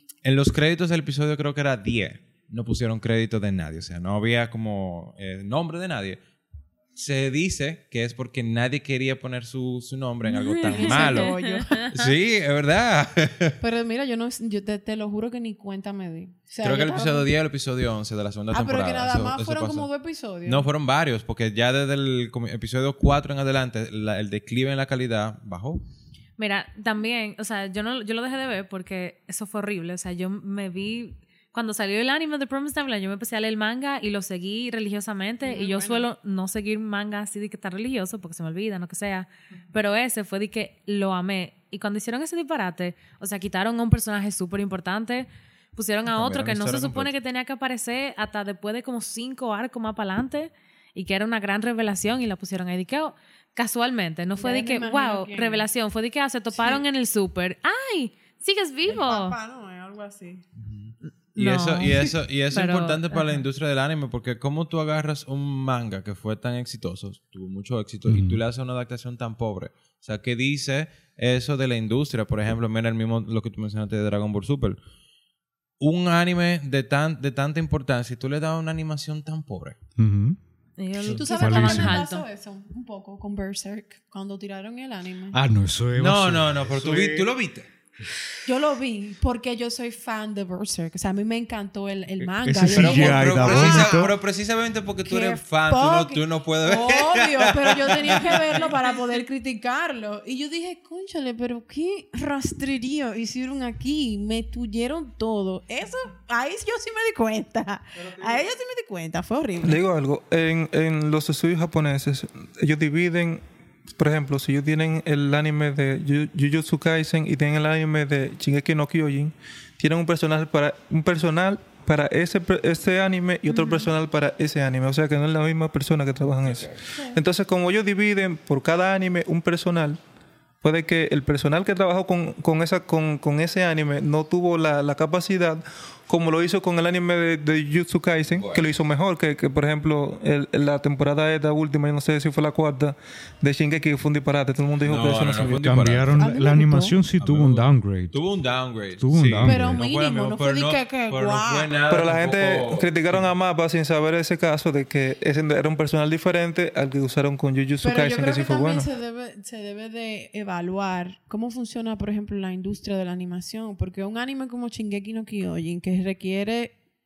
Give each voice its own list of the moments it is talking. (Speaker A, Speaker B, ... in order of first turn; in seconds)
Speaker A: 0.2-6.2, 6.9-11.3, 11.9-13.6, 16.6-19.9, 20.4-25.8, 46.1-47.1, 60.6-74.8, 75.8-79.8, 85.9-87.7, 92.7-98.7, 126.4-126.8, 138.3-138.7, 144.8-146.2, 147.2-153.3
Speaker B: 10.3-11.8, 13.6-17.3, 18.5-20.7, 35.4-36.1, 54.4-55.7, 56.5-56.8, 58.9-60.4, 81.1-85.4, 88.4-94.1, 95.0-109.8, 146.1-147.0, 149.4-151.8, 157.8-166.7
Speaker C: 10.4-12.1, 26.4-59.3, 61.3-63.4, 80.8-82.2, 123.5-123.9
Speaker D: 68.0-68.4, 80.0-80.4, 81.1-82.0, 85.3-87.3, 92.2-94.1, 145.6-148.2, 149.0-149.8
Speaker E: 109.6-113.4, 114.0-130.0, 130.6-145.6, 151.9-158.9